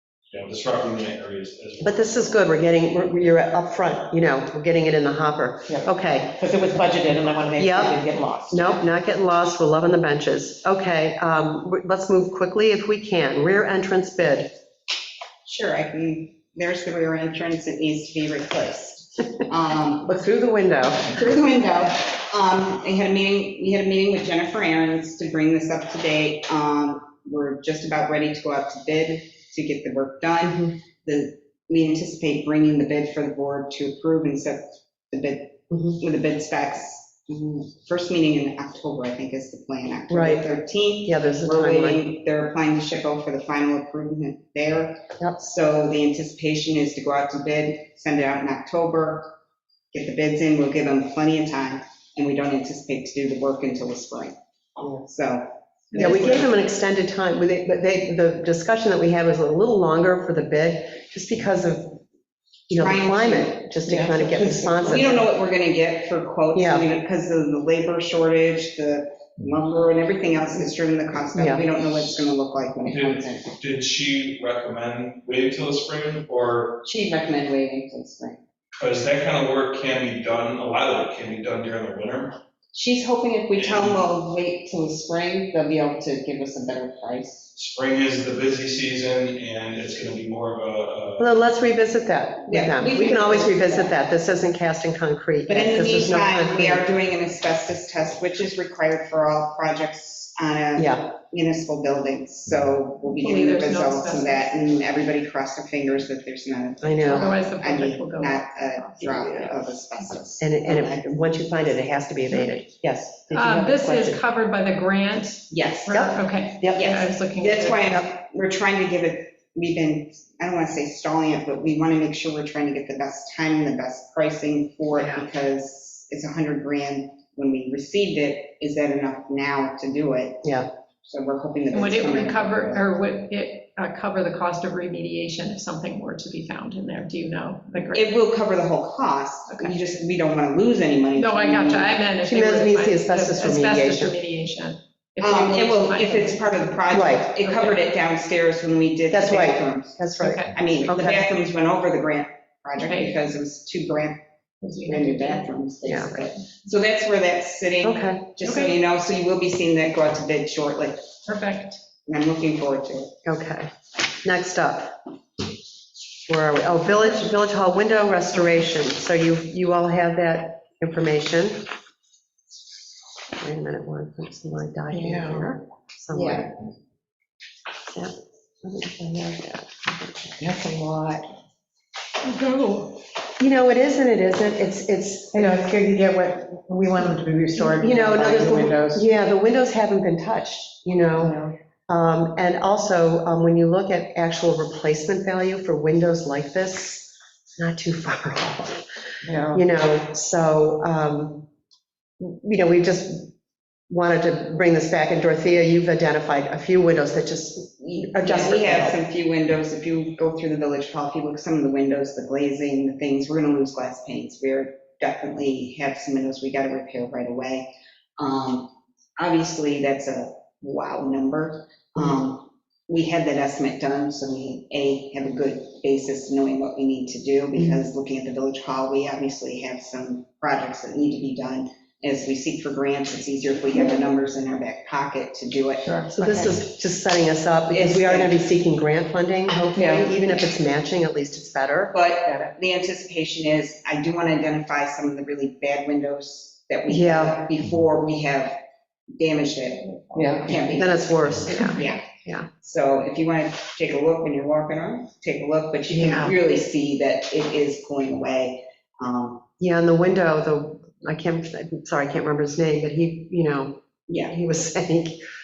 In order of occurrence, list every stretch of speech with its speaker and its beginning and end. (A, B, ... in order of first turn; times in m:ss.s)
0:00.3-0:02.1 A
0:01.8-0:06.4 B
0:05.7-0:08.8 C
0:07.6-0:14.5 B
0:15.4-0:20.2 D
0:20.0-0:21.2 B
0:21.1-0:49.3 D
0:35.7-0:36.0 B
0:40.1-0:40.4 B
0:41.0-0:42.0 B
0:49.9-0:56.5 D
0:55.9-1:02.0 B
1:02.7-1:05.2 B
1:02.7-1:03.6 D
1:03.8-1:05.1 C
1:04.8-1:13.6 D
1:06.5-1:06.8 B
1:11.3-1:11.6 B
1:12.9-1:16.8 A
1:16.8-1:18.4 D
1:18.8-1:22.4 A
1:22.7-1:27.5 D
1:23.6-1:24.0 A
1:27.5-1:31.2 A
1:31.2-1:36.8 B
1:32.5-1:34.0 D
1:35.5-1:51.1 D
1:40.8-1:41.1 B
1:43.1-1:44.6 E
1:46.8-1:47.3 B
1:47.1-1:49.5 E
1:50.4-1:54.2 B
1:53.3-1:57.9 E
1:55.5-1:56.0 D
1:55.9-1:56.8 B
1:56.7-2:10.5 D
2:11.0-2:12.9 D
2:11.7-2:18.1 E
2:17.9-2:22.0 D
2:19.5-2:19.8 E
2:21.2-2:26.7 E
2:22.2-2:24.1 B
2:25.2-2:30.0 D
2:26.9-2:27.3 B
2:27.4-2:27.9 E
2:29.1-2:31.3 B
2:30.2-2:30.5 E
2:30.5-2:34.2 D
2:32.8-2:33.2 E
2:34.6-2:35.5 E
2:34.8-2:41.0 D
2:35.8-2:36.3 B
2:37.8-2:38.2 B
2:38.4-2:38.8 E
2:41.2-2:41.8 E
2:42.0-2:43.1 D
2:43.2-2:43.7 B
2:44.2-2:45.0 B
2:46.3-2:51.6 B
2:53.4-2:56.5 B
2:54.9-2:55.5 C
2:56.1-2:56.4 C
2:58.6-3:00.1 B
3:00.4-3:01.2 C
3:02.2-3:03.0 E
3:03.4-3:05.6 B
3:05.3-3:09.0 C
3:07.5-3:11.4 B
3:11.2-3:11.5 C
3:11.9-3:18.8 B
3:19.2-3:19.6 C
3:19.5-3:21.5 B
3:22.2-3:23.3 B
3:23.9-3:29.0 B
3:27.8-3:37.6 D
3:38.2-3:55.9 D
3:47.6-3:47.8 B
3:55.8-3:56.6 C
3:56.1-4:01.9 B
3:57.7-3:58.3 D
3:59.7-4:00.1 C
4:01.9-4:08.6 D
4:02.2-4:02.5 C
4:06.9-4:07.4 B
4:09.2-4:12.1 D
4:10.1-4:11.0 C
4:10.7-4:12.5 B
4:12.6-4:19.5 D
4:15.9-4:16.4 C
4:19.6-4:23.8 B
4:24.1-4:24.4 D
4:24.3-4:25.2 B